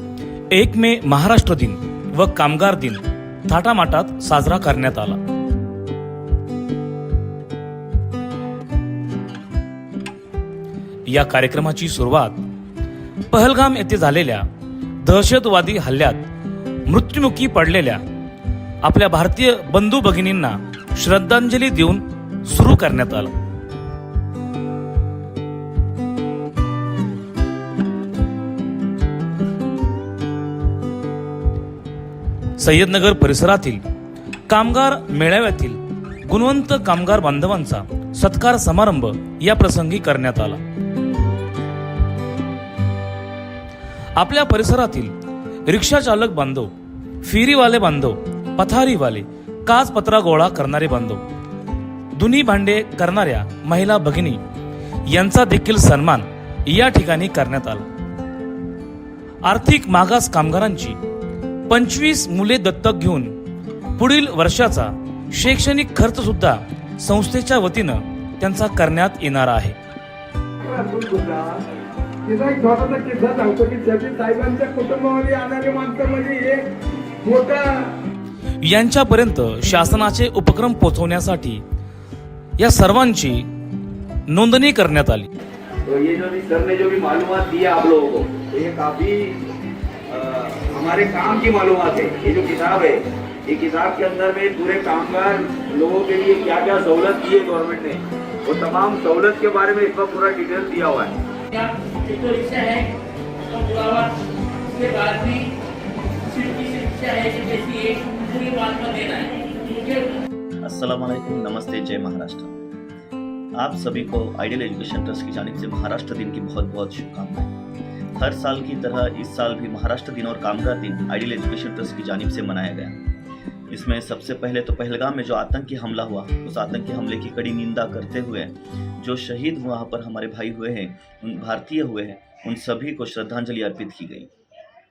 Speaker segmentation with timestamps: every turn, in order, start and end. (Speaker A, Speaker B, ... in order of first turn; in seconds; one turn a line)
Speaker A: 0.5-5.2
Speaker A: 11.1-12.4
Speaker A: 13.3-14.4
Speaker A: 15.0-16.2
Speaker A: 16.9-18.0
Speaker A: 18.8-23.3
Speaker A: 32.6-33.8
Speaker A: 34.5-40.6
Speaker A: 44.1-45.1
Speaker A: 45.6-46.7
Speaker A: 47.2-51.2
Speaker A: 52.1-54.4
Speaker A: 55.0-57.9
Speaker A: 59.4-61.0
Speaker A: 61.7-63.3
Speaker A: 64.0-69.8
Speaker B: 70.6-71.6
Speaker B: 72.2-77.9
Speaker A: 78.6-81.6
Speaker A: 82.6-83.5
Speaker A: 84.3-85.3
Speaker C: 85.8-89.4
Speaker C: 90.1-101.1
Speaker D: 101.5-102.9
Speaker D: 103.5-105.5
Speaker D: 106.2-110.2
Speaker E: 110.6-112.6
Speaker E: 113.6-117.5
Speaker E: 118.2-123.0
Speaker E: 123.7-134.3